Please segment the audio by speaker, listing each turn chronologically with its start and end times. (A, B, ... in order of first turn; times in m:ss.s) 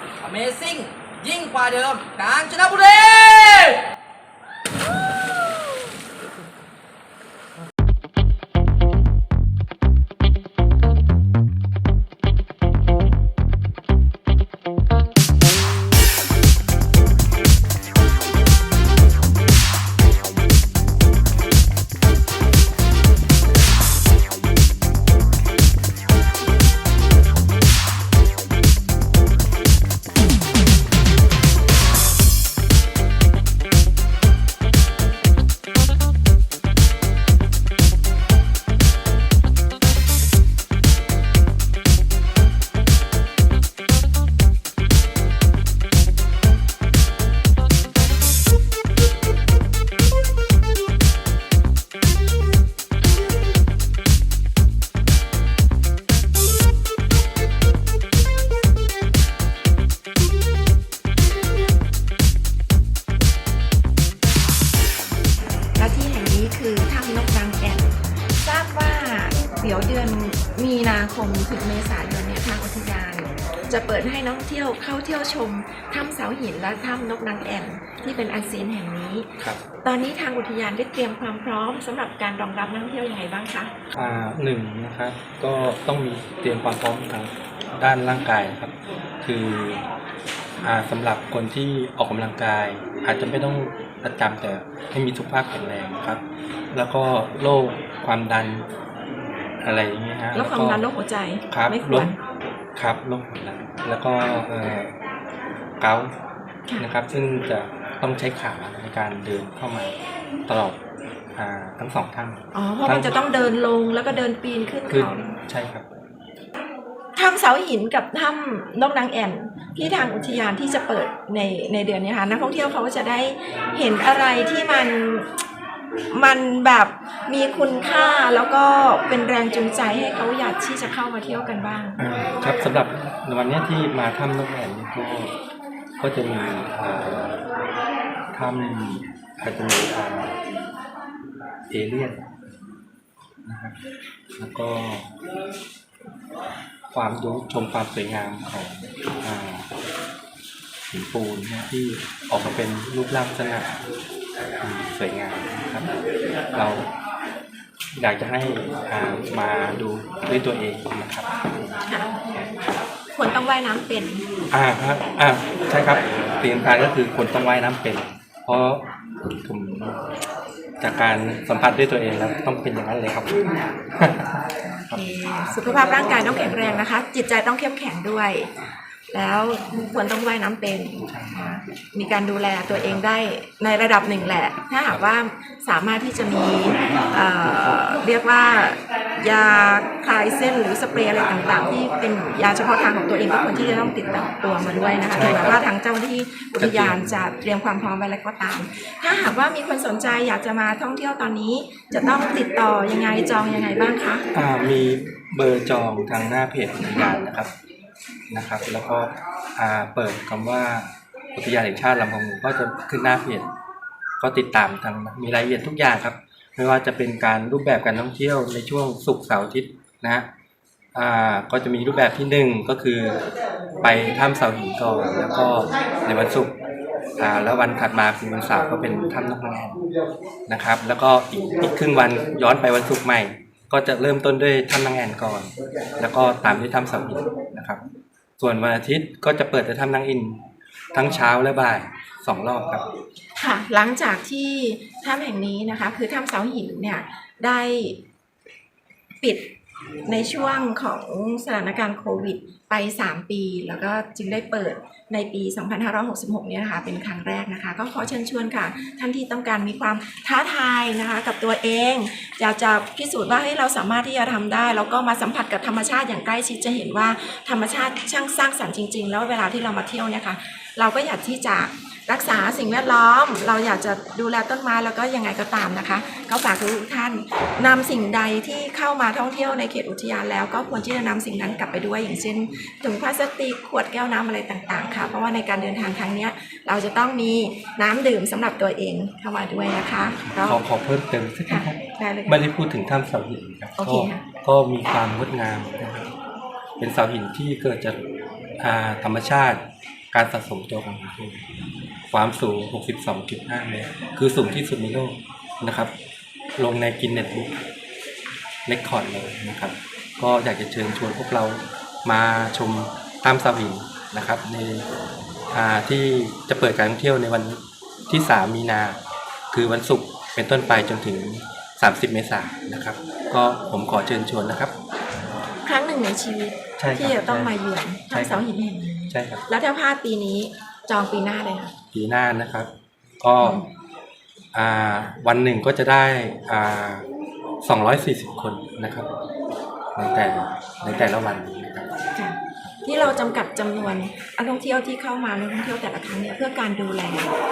0:00.2-0:03.8 A
1:05.8-1:23.7 B
1:23.9-1:29.9 C
1:30.6-1:38.7 C
1:39.6-1:40.8 C
1:40.3-1:42.2 B
1:41.5-1:42.1 C
1:42.8-1:44.9 C
1:45.8-1:46.2 C
1:46.8-1:50.8 C
1:51.4-1:53.2 C
1:52.5-1:55.4 B
1:54.9-1:55.9 C
1:57.2-2:05.4 B
2:06.1-2:12.0 B
2:12.0-2:15.3 C
2:16.0-2:17.4 C
2:18.3-2:20.3 C
2:21.7-2:22.3 C
2:23.4-2:23.8 C
2:24.4-2:25.1 C
2:26.9-2:29.7 C
2:30.9-2:33.8 C
2:34.6-2:35.9 C
2:36.5-2:36.9 C
2:37.9-2:41.3 C
2:41.9-2:42.4 B
2:43.1-2:44.3 B
2:44.5-2:48.9 C
2:49.4-2:50.0 C
2:50.8-2:56.0 C
2:54.6-2:58.5 B
2:59.1-3:24.3 B
3:01.0-3:01.4 C
3:15.1-3:15.6 C
3:16.6-3:17.2 C
3:24.4-3:27.5 C
3:28.3-3:33.5 C
3:34.2-3:40.3 C
3:41.0-3:43.2 C
3:43.8-3:46.6 C
3:47.2-3:49.8 C
3:50.5-3:57.8 C
3:58.4-4:00.4 C
4:00.9-4:02.9 C
4:03.4-4:08.0 B
4:09.2-4:09.5 B
4:10.0-4:50.6 B
4:50.2-4:56.1 C
4:51.5-4:52.4 B
4:53.8-4:54.2 B
4:56.8-4:58.0 C
4:58.6-5:01.4 C
5:02.1-5:05.9 C
5:06.6-5:07.6 C
5:08.7-5:14.9 C
5:15.5-5:19.0 C
5:19.5-5:24.7 C
5:25.6-5:31.7 B
5:26.8-5:27.5 C
5:28.1-5:28.4 C
5:29.1-5:29.4 C
5:31.9-5:32.7 C
5:33.2-5:33.6 C
5:33.4-5:33.7 B
5:34.5-5:37.1 C
5:37.6-5:39.1 C
5:40.0-5:41.9 C
5:42.2-5:47.3 B